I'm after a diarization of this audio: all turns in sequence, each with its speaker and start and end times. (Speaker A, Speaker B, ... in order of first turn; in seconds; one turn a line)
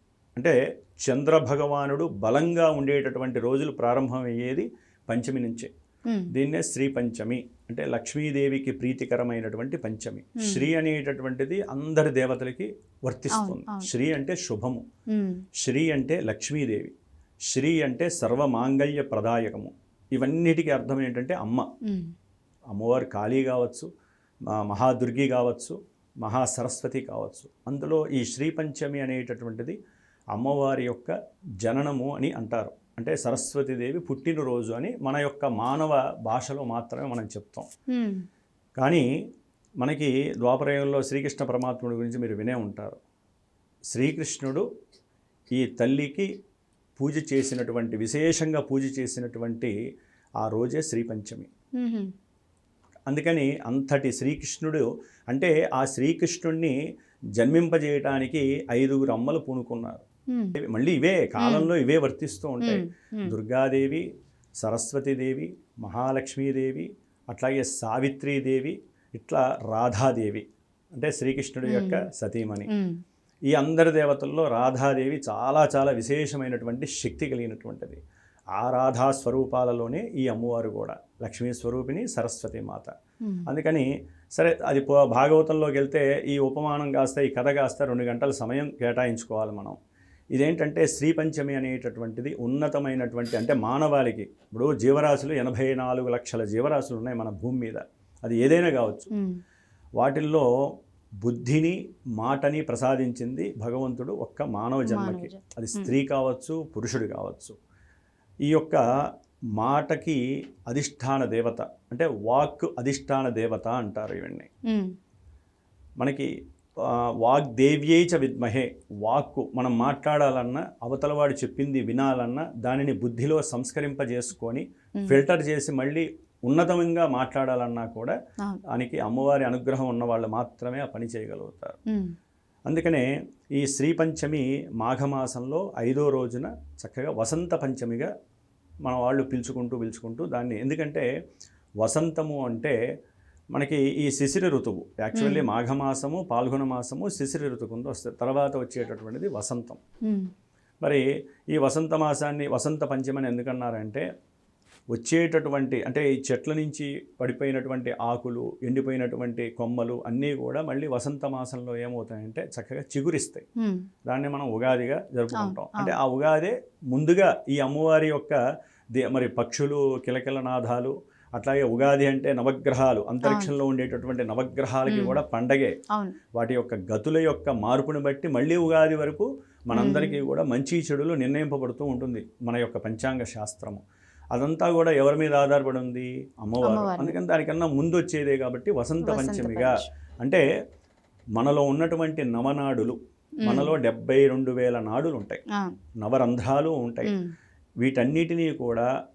Speaker A: 0.4-5.7
Speaker A: 6.3-14.8
Speaker B: 10.4-10.7
Speaker B: 13.3-13.9
Speaker B: 15.1-15.4
Speaker A: 15.6-16.9
Speaker A: 17.5-21.7
Speaker B: 21.9-22.1
Speaker A: 22.7-23.9
Speaker A: 24.6-29.8
Speaker A: 30.3-37.7
Speaker B: 37.9-38.2
Speaker A: 38.8-39.0
Speaker A: 39.8-43.0
Speaker A: 43.9-44.6
Speaker A: 45.5-46.3
Speaker A: 47.0-49.7
Speaker A: 50.4-51.5
Speaker B: 51.8-52.1
Speaker A: 53.1-56.7
Speaker A: 57.4-60.0
Speaker A: 60.5-64.0
Speaker B: 61.4-61.7
Speaker B: 62.6-63.3
Speaker A: 64.6-72.7
Speaker B: 71.6-72.0
Speaker B: 72.7-73.0
Speaker A: 73.5-78.0
Speaker A: 78.5-82.9
Speaker A: 83.5-89.8
Speaker A: 90.3-99.1
Speaker A: 100.0-100.5
Speaker A: 101.2-107.5
Speaker B: 104.8-105.9
Speaker A: 108.5-108.8
Speaker A: 109.6-114.5
Speaker A: 116.0-116.3
Speaker A: 117.2-128.1
Speaker A: 128.7-131.8
Speaker A: 132.7-138.1
Speaker A: 138.8-141.1
Speaker A: 141.8-142.7
Speaker A: 143.6-149.8
Speaker B: 145.1-145.4
Speaker A: 151.5-154.0
Speaker A: 154.9-163.4
Speaker B: 163.6-163.8
Speaker A: 164.1-168.4
Speaker B: 165.4-165.9
Speaker A: 168.9-175.7
Speaker B: 173.2-173.5
Speaker B: 174.8-175.2
Speaker A: 176.3-183.8
Speaker B: 179.7-180.2
Speaker A: 184.3-190.4
Speaker B: 186.6-187.1
Speaker B: 189.0-189.9
Speaker A: 191.3-195.4
Speaker B: 193.4-193.7
Speaker A: 196.0-197.1
Speaker A: 197.8-198.8